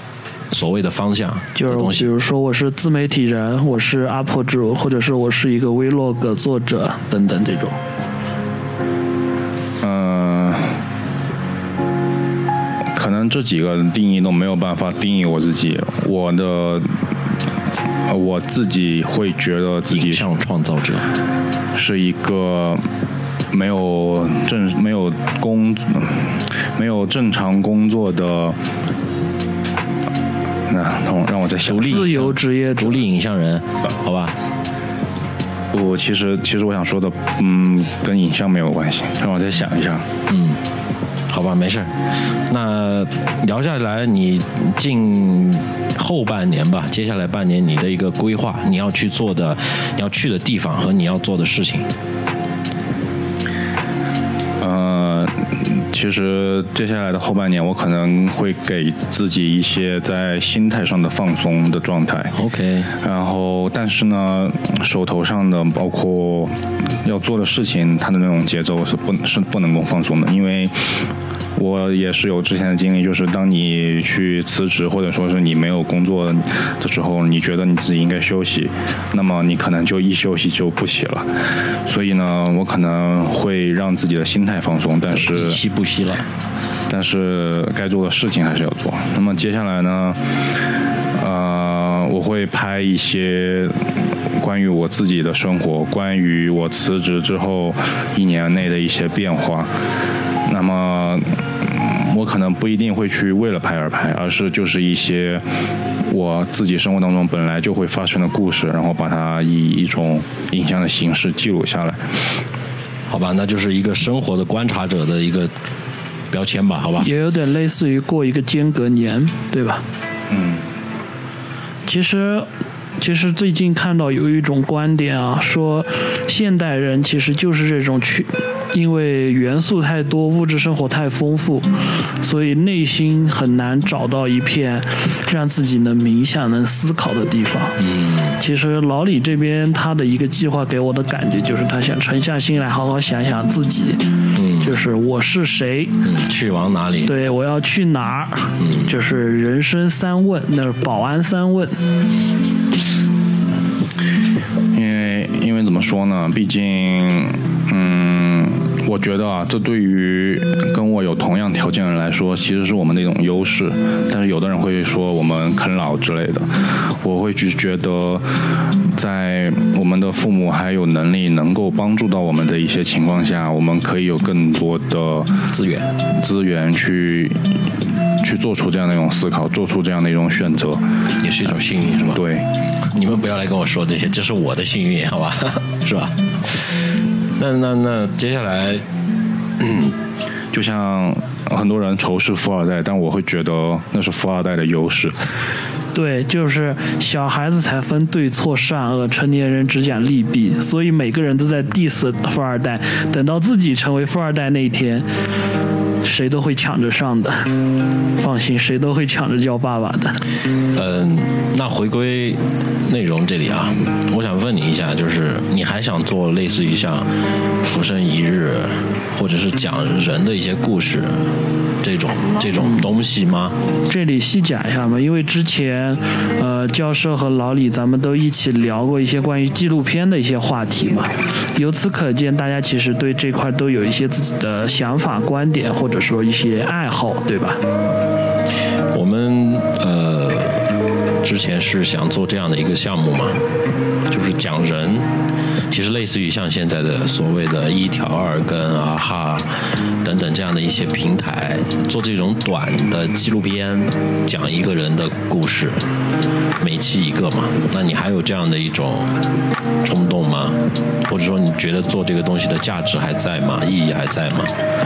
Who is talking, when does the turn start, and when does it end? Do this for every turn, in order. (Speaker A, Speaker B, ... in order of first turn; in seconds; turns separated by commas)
Speaker A: 0.5-2.1, Speaker B: 1.5-7.8, Speaker C: 9.8-10.8, Speaker C: 12.9-17.0, Speaker C: 18.1-20.3, Speaker A: 19.9-21.1, Speaker C: 21.7-22.8, Speaker C: 23.5-28.6, Speaker C: 30.7-32.1, Speaker B: 31.7-33.0, Speaker A: 31.7-34.4, Speaker C: 35.7-40.1, Speaker A: 40.3-40.6, Speaker A: 41.3-51.9, Speaker C: 54.6-62.3, Speaker A: 62.3-62.9, Speaker C: 62.9-71.0, Speaker C: 71.5-85.6, Speaker A: 85.1-86.2, Speaker C: 86.9-90.2, Speaker C: 91.2-99.7, Speaker C: 100.5-105.4, Speaker C: 106.0-112.2, Speaker A: 113.1-115.5, Speaker A: 116.3-117.1, Speaker B: 117.0-119.8, Speaker C: 120.3-120.6, Speaker B: 121.8-122.5, Speaker B: 123.0-131.7, Speaker B: 132.2-137.8, Speaker A: 137.8-138.3, Speaker B: 138.4-146.0, Speaker A: 144.3-144.8, Speaker A: 146.0-147.1, Speaker B: 147.0-151.8, Speaker A: 148.6-148.9, Speaker C: 154.7-168.2, Speaker C: 168.8-175.5, Speaker A: 175.5-175.9, Speaker C: 176.1-177.6, Speaker C: 178.2-180.8, Speaker A: 181.2-182.2, Speaker C: 182.1-182.5, Speaker A: 182.8-186.8, Speaker A: 187.4-188.8, Speaker A: 189.6-189.9, Speaker C: 190.5-195.2, Speaker B: 195.9-205.1, Speaker B: 206.0-207.5, Speaker B: 208.1-210.2, Speaker A: 210.7-217.1, Speaker A: 217.6-221.3, Speaker A: 221.8-223.6, Speaker B: 222.6-222.9, Speaker B: 223.9-237.6, Speaker A: 238.9-240.7, Speaker A: 241.2-243.4, Speaker A: 244.1-245.1, Speaker A: 245.7-255.8, Speaker A: 256.6-259.1, Speaker A: 259.8-264.5